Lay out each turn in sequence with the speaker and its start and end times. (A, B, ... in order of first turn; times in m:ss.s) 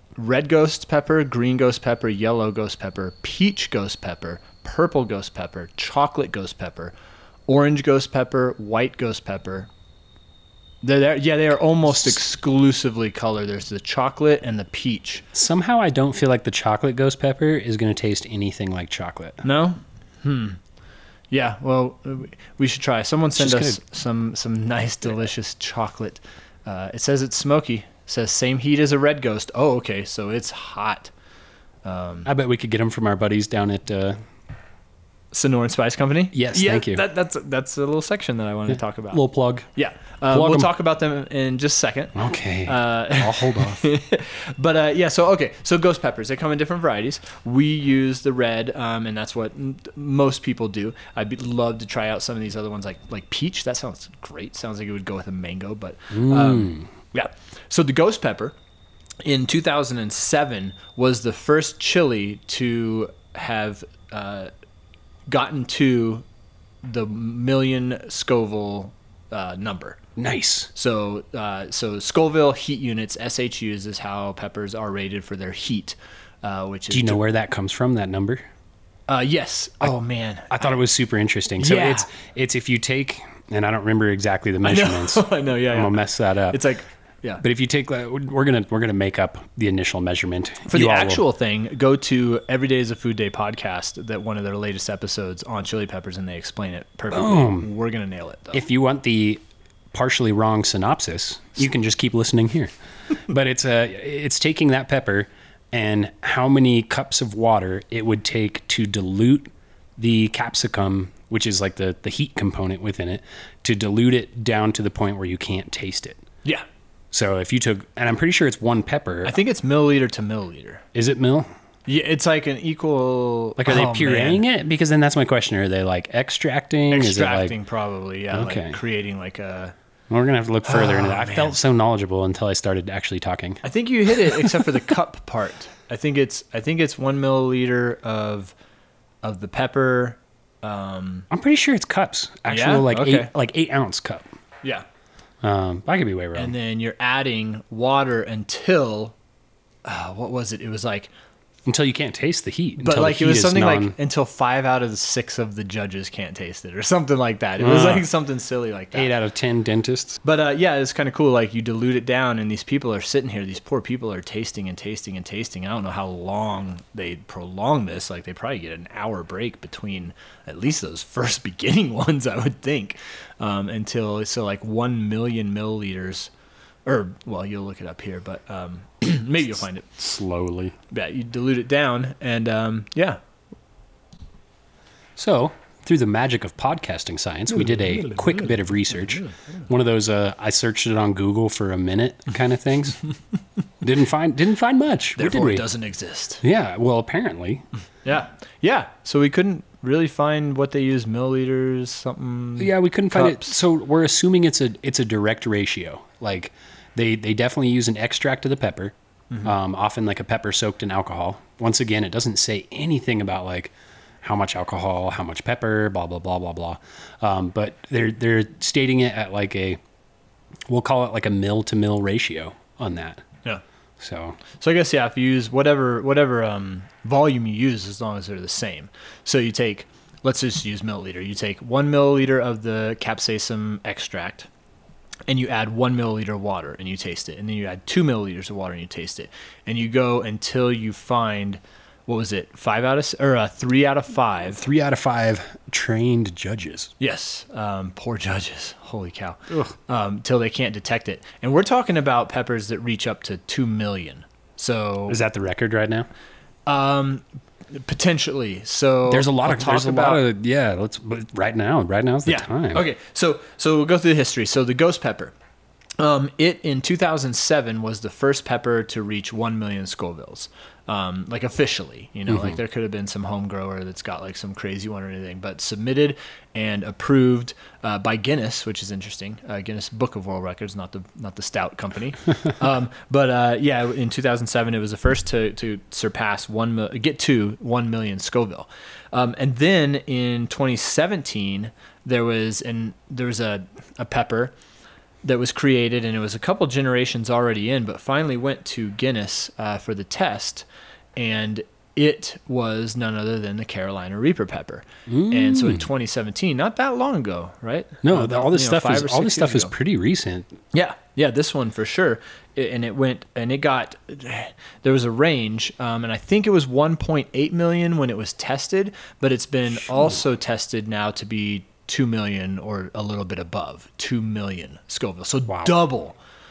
0:00.2-0:06.9 A
0:07.5-0:09.7 A
0:10.8-0:15.3 A
0:15.3-0:19.4 B
0:19.4-0:20.6 A
0:21.3-0:31.1 A
0:23.4-0:23.8 B
0:31.8-0:32.3 A
0:32.3-0:34.2 B
0:35.3-0:39.2 A
0:36.3-0:37.0 B
0:38.7-0:39.7 B
0:39.8-0:58.6 A
0:40.3-0:40.7 B
0:42.2-0:43.9 B
0:56.1-0:56.9 B
0:59.2-1:04.5 A
1:05.3-1:06.2 A
1:06.8-1:10.0 A
1:10.2-1:10.7 B
1:10.8-1:17.2 A
1:16.9-1:18.5 B
1:19.1-1:20.6 A
1:20.5-1:26.7 B
1:21.6-1:22.1 A
1:24.6-1:27.4 A
1:27.4-1:31.2 B
1:30.7-1:38.6 A
1:37.1-1:37.7 B
1:38.5-1:42.7 B
1:43.3-1:56.2 B
1:57.1-1:59.4 B
1:59.2-2:00.8 A
2:00.9-2:01.5 B
2:01.9-2:04.4 A
2:03.6-2:07.6 B
2:06.9-2:09.7 A
2:08.3-2:08.8 B
2:10.1-2:13.6 B
2:10.7-2:11.6 A
2:13.6-2:18.5 A
2:19.2-2:21.3 A
2:21.3-2:24.3 B
2:22.5-2:23.3 A
2:25.4-2:26.6 B
2:26.4-2:29.2 A
2:29.8-2:31.1 A
2:31.7-2:34.0 B
2:32.8-2:39.1 A
2:37.6-2:38.1 B
2:38.9-2:40.2 B
2:40.2-2:56.3 A
2:56.9-2:59.9 A
3:00.0-3:00.8 B
3:00.9-3:03.2 A
3:05.2-3:13.0 B
3:07.6-3:08.6 A
3:09.1-3:09.4 A
3:13.8-3:15.6 B
3:15.2-3:16.4 A
3:16.4-3:17.6 B
3:18.0-3:23.5 A
3:22.6-3:39.8 B
3:40.7-3:43.2 B
3:44.0-3:44.4 B
3:44.6-3:54.5 A
3:55.3-4:04.6 A
4:04.5-4:06.9 B
4:07.0-4:15.2 A
4:15.1-4:16.1 B
4:16.7-4:20.2 A
4:19.1-4:22.9 B
4:22.2-4:25.3 A
4:26.0-4:54.5 A
4:32.3-4:32.6 B
4:55.2-5:09.7 A
5:05.1-5:05.9 B
5:08.0-5:10.6 B
5:10.7-5:26.2 A
5:25.5-5:25.8 B